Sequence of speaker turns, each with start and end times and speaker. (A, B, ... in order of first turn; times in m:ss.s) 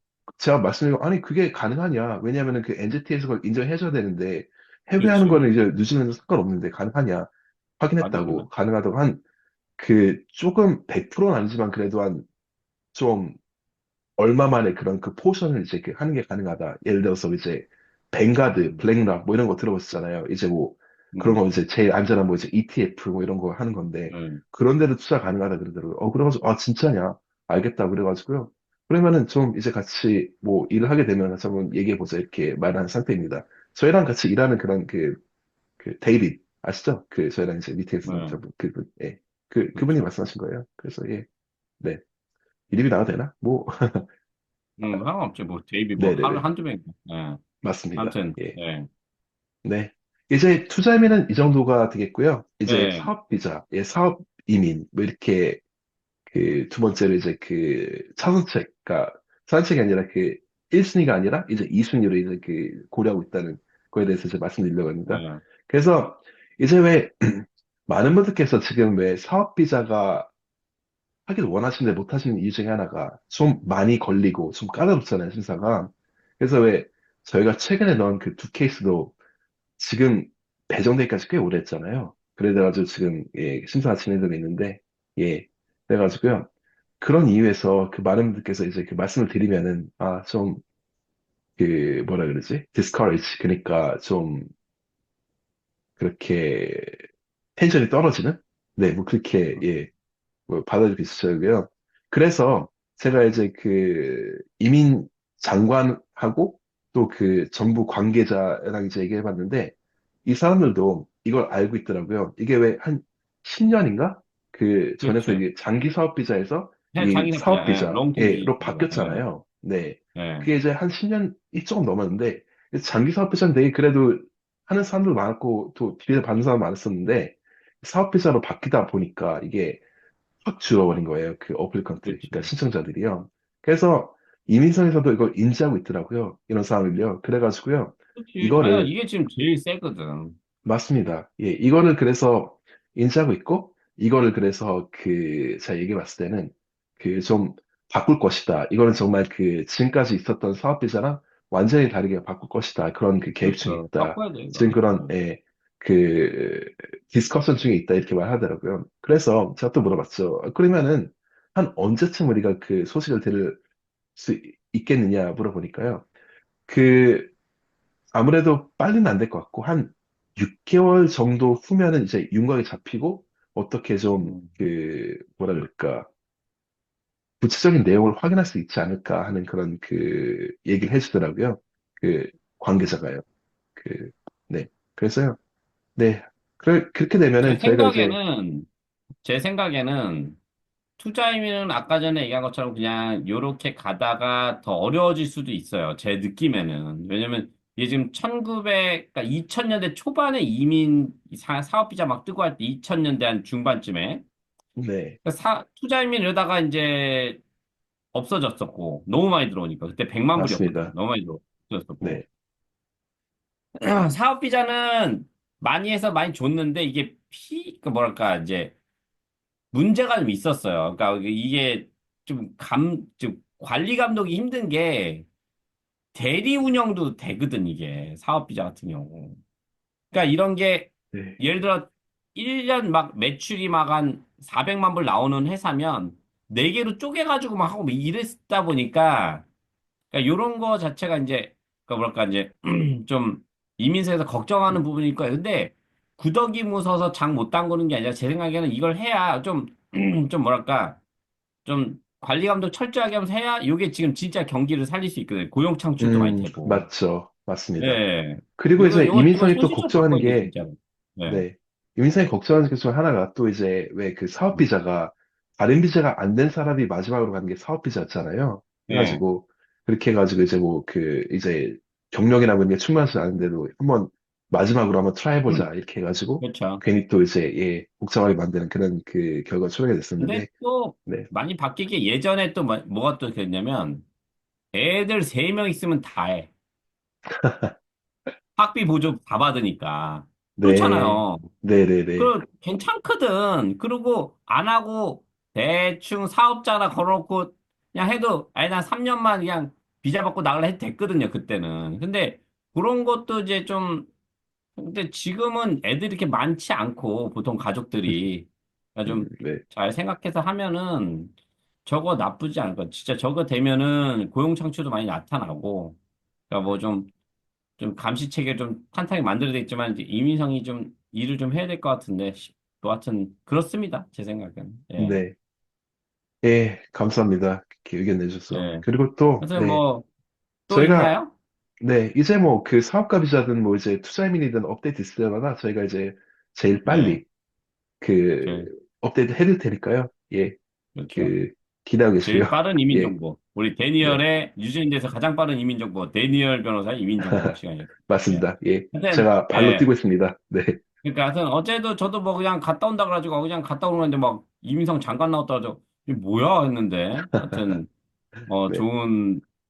0:00.4-0:09.2 A
0:05.0-0:05.5 B
0:08.0-0:08.5 B
0:09.8-0:12.3 A
0:12.9-0:13.4 A
0:14.2-0:35.2 A
0:21.1-0:21.5 B
0:24.1-0:24.4 B
0:35.8-0:41.3 A
0:38.0-0:38.4 B
0:42.7-0:44.1 A
0:44.8-0:47.4 B
0:46.0-0:46.5 A
0:47.6-0:48.6 A
0:48.0-0:48.9 B
0:49.6-0:55.6 A
0:52.6-0:53.1 B
0:56.3-1:10.3 A
1:05.1-1:05.4 B
1:11.3-1:19.2 A
1:19.8-1:30.6 A
1:31.6-1:34.5 A
1:36.0-1:37.0 A
1:37.6-1:39.9 A
1:40.5-2:09.8 A
1:55.0-1:55.4 B
1:56.9-1:59.2 B
2:00.2-2:00.5 B
2:10.4-2:18.9 A
2:12.0-2:12.5 B
2:18.2-2:20.4 B
2:20.6-2:43.6 A
2:33.4-2:35.1 B
2:44.2-2:46.1 A
2:46.7-2:47.3 A
2:48.1-2:56.1 A
2:54.2-2:54.5 B
2:57.4-3:03.2 A
3:03.8-3:05.4 A
3:06.0-3:08.2 A
3:07.4-3:08.7 B
3:09.2-3:10.4 B
3:11.0-3:24.2 B
3:24.8-3:25.2 A
3:25.2-3:27.4 B
3:28.1-3:32.2 B
3:30.4-3:30.9 A
3:33.8-3:38.8 B
3:39.7-3:45.3 B
3:46.2-3:49.4 B
3:50.1-3:59.5 B
3:51.1-3:51.4 A
4:00.1-4:11.0 B
4:11.6-4:16.9 B
4:16.0-4:18.0 A
4:17.8-4:21.4 B
4:18.6-4:20.5 A
4:21.3-4:40.5 A
4:28.9-4:29.2 B
4:36.4-4:36.8 B
4:40.2-4:44.1 B
4:44.7-4:46.5 B
4:47.3-4:47.8 A
4:48.6-4:51.5 B
4:50.6-4:52.3 A
4:52.2-5:04.1 B
5:04.8-5:11.3 B
5:09.1-5:09.6 A
5:11.8-5:16.0 B
5:16.5-5:17.1 B
5:17.8-5:25.2 B
5:25.0-5:25.4 A
5:26.4-5:29.8 A
5:28.5-5:28.9 B
5:29.4-5:30.1 B
5:30.7-5:31.3 B
5:30.7-5:31.2 A
5:31.8-5:37.3 A
5:36.9-5:37.2 B
5:38.0-5:40.6 A
5:38.4-5:38.7 B
5:41.0-5:41.3 B
5:41.1-5:43.2 A
5:42.2-5:49.9 B
5:47.2-5:50.8 A
5:51.0-5:57.9 B
5:58.5-5:58.8 A
5:58.5-5:59.4 B